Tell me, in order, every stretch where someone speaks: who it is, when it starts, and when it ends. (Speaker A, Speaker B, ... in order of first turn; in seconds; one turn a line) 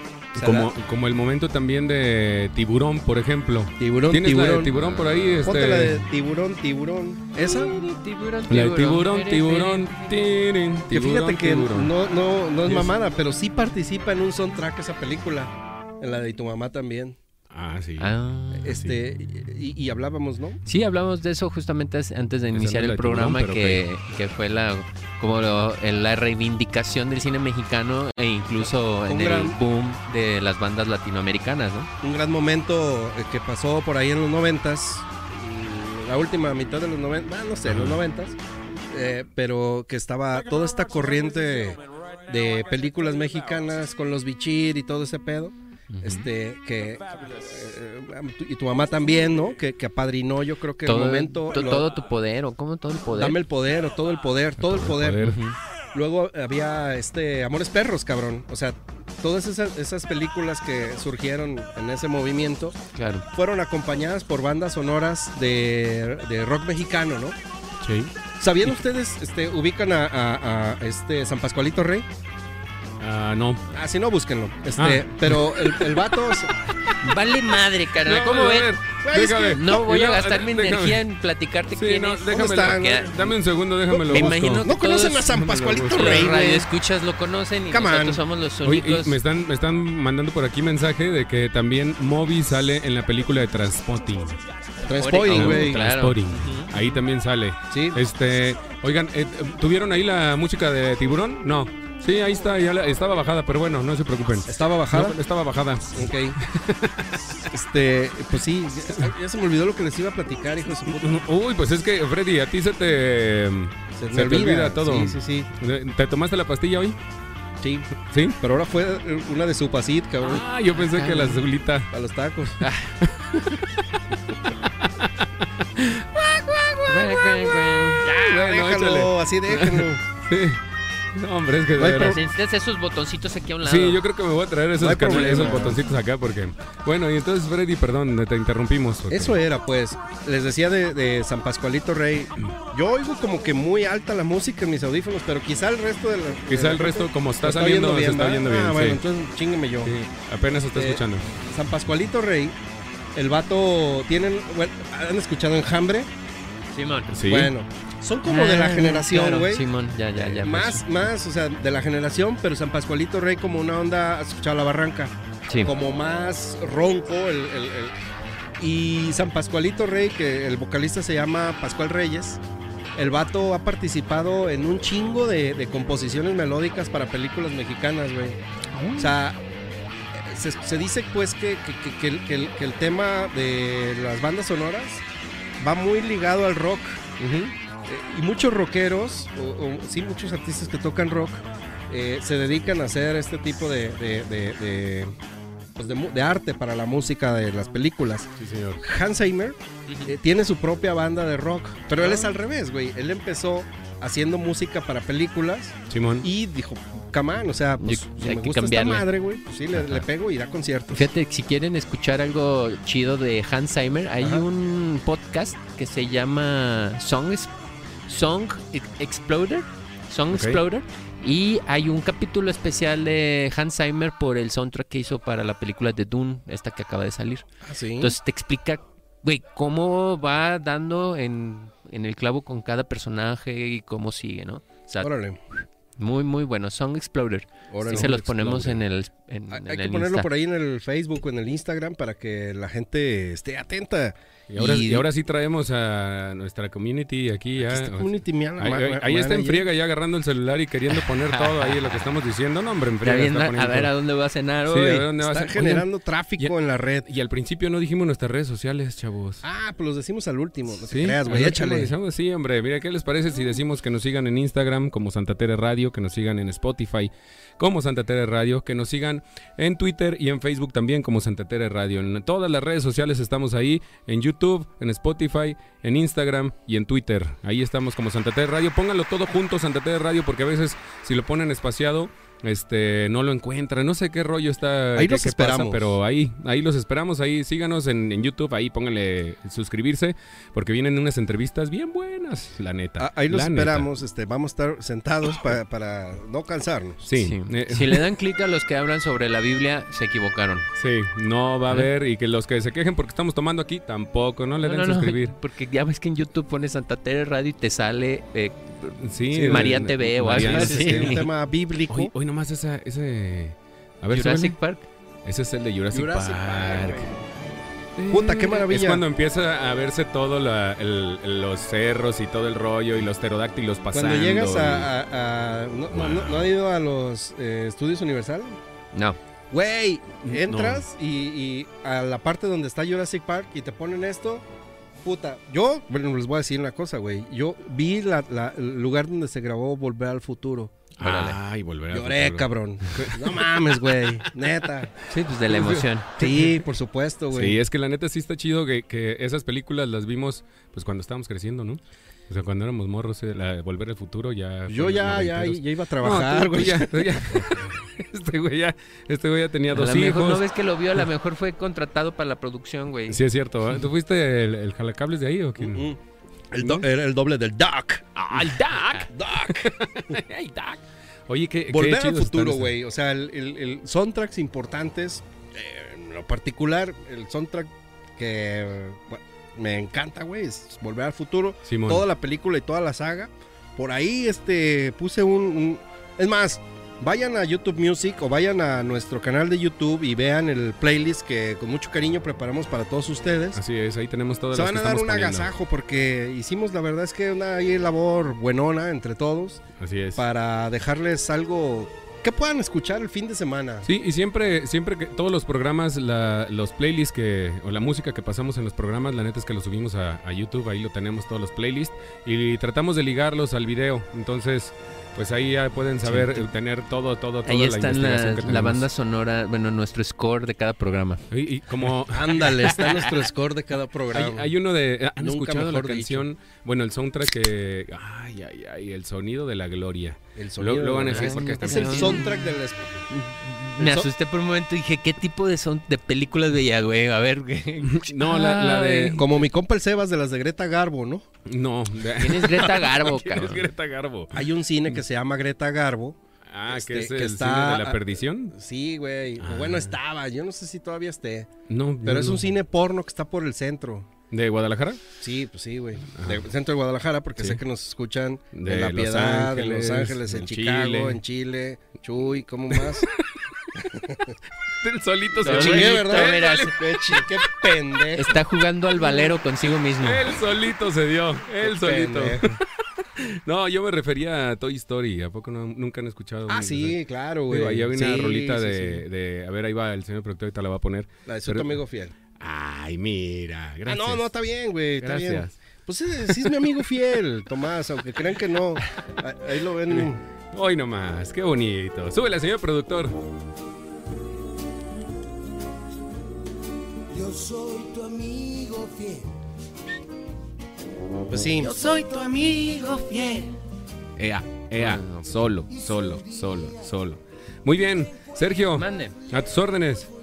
Speaker A: 0.3-0.7
Speaker B: 0.3-6.0
Speaker A: 3.8-4.7
Speaker A: 5.4-7.7
Speaker C: 7.4-10.1
Speaker B: 8.5-11.9
Speaker A: 10.9-17.2
Speaker B: 12.7-12.9
Speaker B: 17.5-18.1
Speaker C: 18.0-18.7
Speaker A: 18.5-20.6
Speaker B: 18.7-19.0
Speaker C: 20.6-31.9
Speaker B: 22.5-23.8
Speaker A: 29.1-29.6
Speaker A: 32.0-38.4
Speaker B: 37.7-38.0
Speaker A: 38.9-51.9
Speaker C: 45.9-46.3
Speaker C: 50.9-53.4
Speaker A: 53.1-55.3
Speaker B: 54.6-55.4
Speaker C: 55.2-55.5
Speaker A: 55.9-62.8
Speaker C: 63.0-63.3
Speaker A: 63.3-67.4
Speaker B: 67.8-68.1
Speaker A: 68.4-72.1
Speaker B: 73.0-73.7
Speaker A: 73.7-76.5
Speaker B: 74.8-75.9
Speaker C: 77.0-78.7
Speaker B: 78.0-81.0
Speaker A: 79.0-79.8
Speaker C: 79.5-83.1
Speaker B: 81.8-84.7
Speaker A: 82.3-83.4
Speaker A: 83.9-86.7
Speaker C: 84.0-89.2
Speaker B: 85.4-86.3
Speaker A: 87.7-88.2
Speaker B: 88.6-94.4
Speaker A: 94.8-95.8
Speaker C: 95.0-97.0
Speaker B: 95.3-107.4
Speaker A: 97.7-98.0
Speaker A: 104.5-105.2
Speaker A: 105.9-106.4
Speaker A: 107.5-111.2
Speaker B: 110.9-117.0
Speaker A: 114.0-115.5
Speaker A: 117.6-120.4
Speaker B: 118.0-118.4
Speaker B: 120.2-121.9
Speaker C: 120.8-121.4
Speaker A: 121.9-122.6
Speaker C: 122.6-122.9
Speaker B: 123.0-123.9
Speaker B: 124.7-127.5
Speaker C: 126.9-128.1
Speaker A: 128.0-130.0
Speaker B: 128.1-130.6
Speaker B: 131.1-132.2
Speaker A: 131.8-132.2
Speaker C: 131.9-134.0
Speaker B: 133.6-139.4
Speaker A: 134.8-135.8
Speaker A: 139.1-149.9
Speaker B: 146.5-149.0
Speaker B: 149.8-151.3
Speaker A: 150.7-152.6
Speaker A: 153.2-156.1
Speaker C: 156.7-157.1
Speaker B: 157.1-157.5
Speaker A: 157.2-167.9
Speaker C: 158.2-160.9
Speaker A: 168.6-172.4
Speaker A: 172.9-178.4
Speaker C: 178.8-179.1
Speaker A: 179.0-179.4
Speaker A: 180.1-185.1
Speaker A: 185.6-195.1
Speaker A: 195.8-211.1
Speaker B: 198.4-198.8
Speaker C: 202.0-202.3
Speaker B: 205.9-206.3
Speaker C: 207.8-209.1
Speaker C: 210.9-217.5
Speaker A: 214.2-214.4
Speaker C: 218.1-227.5
Speaker B: 220.3-220.6
Speaker A: 227.6-228.2
Speaker C: 228.0-240.3
Speaker A: 235.0-235.4
Speaker A: 237.7-238.7
Speaker B: 237.9-238.7
Speaker A: 239.5-245.1
Speaker B: 244.5-253.9
Speaker A: 247.6-249.7
Speaker C: 251.3-251.9
Speaker C: 253.0-255.1
Speaker B: 254.7-255.9
Speaker A: 255.2-257.1
Speaker B: 257.1-259.4
Speaker A: 259.4-261.9
Speaker B: 260.9-293.9
Speaker A: 285.0-285.9
Speaker A: 293.0-297.1
Speaker B: 297.1-298.1
Speaker C: 297.2-300.7
Speaker B: 300.8-305.4
Speaker C: 304.6-311.3
Speaker B: 309.0-311.2
Speaker A: 310.3-312.1
Speaker B: 311.9-314.6
Speaker C: 314.1-314.9
Speaker B: 315.2-317.1
Speaker A: 315.9-317.1
Speaker B: 318.0-324.9
Speaker A: 318.1-319.0
Speaker A: 323.9-328.6
Speaker B: 325.9-326.5
Speaker A: 329.5-334.4
Speaker B: 330.3-330.8
Speaker A: 335.0-340.8
Speaker B: 341.0-344.0
Speaker C: 341.0-341.4
Speaker A: 341.9-344.9
Speaker C: 345.1-346.1
Speaker B: 345.5-346.6
Speaker A: 346.2-347.6
Speaker B: 347.3-360.4
Speaker A: 354.7-357.7
Speaker C: 359.7-363.2
Speaker B: 363.1-365.9
Speaker A: 365.6-366.0
Speaker A: 366.5-368.4
Speaker B: 368.2-372.7
Speaker C: 368.8-369.1
Speaker A: 369.1-370.1
Speaker A: 371.7-393.6
Speaker B: 381.7-382.0
Speaker B: 393.6-395.5
Speaker A: 394.5-399.6
Speaker B: 399.8-400.2
Speaker A: 400.2-403.9
Speaker B: 403.9-418.9
Speaker C: 416.1-416.5
Speaker C: 417.4-421.2
Speaker B: 421.3-422.7
Speaker A: 422.1-424.5
Speaker C: 422.6-423.2
Speaker B: 424.1-432.2
Speaker A: 425.2-426.3
Speaker A: 430.4-433.1
Speaker C: 431.1-432.4
Speaker C: 433.1-439.3
Speaker A: 433.8-434.1
Speaker B: 437.8-439.3
Speaker A: 439.2-441.3
Speaker B: 441.5-444.5
Speaker C: 442.2-443.6
Speaker A: 444.3-451.5
Speaker B: 446.5-448.5
Speaker B: 449.4-449.9
Speaker B: 451.7-452.5
Speaker A: 452.0-454.1
Speaker B: 454.3-455.0
Speaker A: 455.2-463.1
Speaker B: 456.1-456.4
Speaker B: 458.5-461.2
Speaker B: 462.7-463.1
Speaker A: 463.7-464.4
Speaker B: 464.8-467.7
Speaker A: 465.4-468.4
Speaker C: 465.4-466.8
Speaker C: 468.1-470.3
Speaker B: 469.8-472.6
Speaker A: 471.6-472.6
Speaker B: 473.2-477.0
Speaker A: 476.5-479.1
Speaker B: 477.5-481.8
Speaker A: 481.3-482.1
Speaker B: 482.4-484.3
Speaker A: 483.9-490.2
Speaker B: 485.0-485.5
Speaker B: 486.2-486.5
Speaker B: 489.9-493.1
Speaker D: 497.1-499.3
Speaker A: 501.3-501.7
Speaker C: 501.6-503.5
Speaker D: 501.6-502.1
Speaker B: 504.2-510.1
Speaker C: 504.8-505.3
Speaker C: 508.8-509.2